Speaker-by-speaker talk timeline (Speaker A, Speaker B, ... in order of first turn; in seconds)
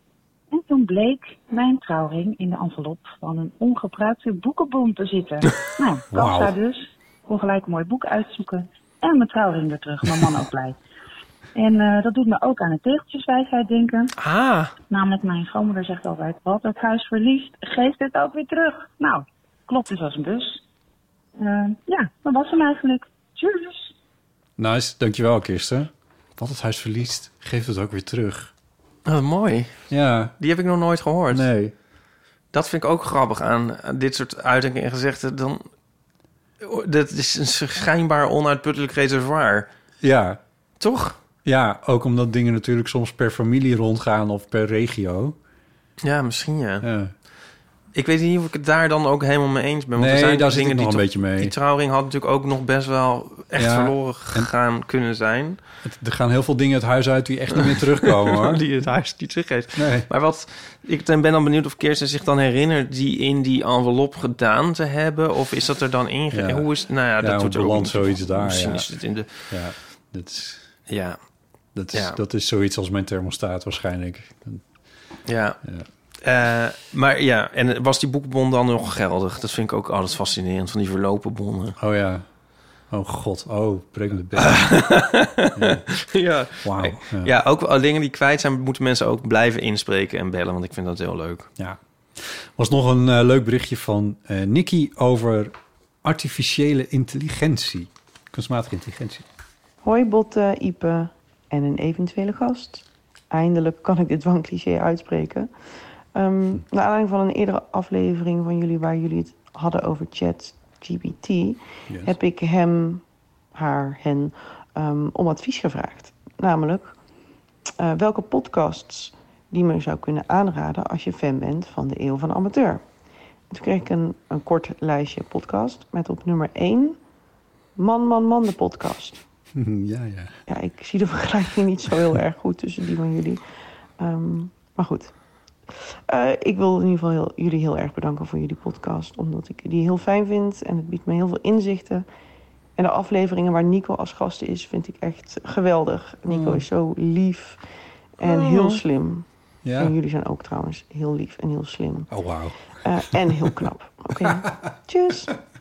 Speaker A: 0.5-10.8, 11.5-14.1, 14.9-20.6, 21.4-23.9
Speaker B: 6.1-6.5, 24.6-28.5, 29.9-30.3, 31.3-31.7, 40.0-40.4, 41.4-45.4, 46.8-47.1, 50.0-51.5, 53.5-54.5, 55.8-58.6, 59.8-60.1, 66.3-66.7, 67.2-70.7, 71.7-74.6, 81.8-82.2, 82.9-84.8, 85.5-85.8, 86.6-87.3, 91.6-99.2, 111.9-112.2, 129.5-130.4, 146.3-146.7, 149.6-149.9, 152.1-153.5, 154.2-154.5
Speaker C: 14.2-14.7, 29.1-29.7, 30.4-31.5, 32.5-35.6, 36.6-39.7, 40.8-41.2, 46.0-46.9, 47.9-55.6, 57.5-69.3, 70.9-71.2, 71.9-72.2, 75.2-75.6, 76.2-81.8, 84.4-91.5, 148.2-148.8
Speaker D: 99.8-105.5, 106.1-113.0, 113.5-117.0, 117.8-122.8, 123.5-127.0, 127.8-129.2, 130.5-133.4, 134.0-135.1, 136.1-142.1, 142.8-147.6, 148.2-149.2, 149.8-152.1, 152.8-155.3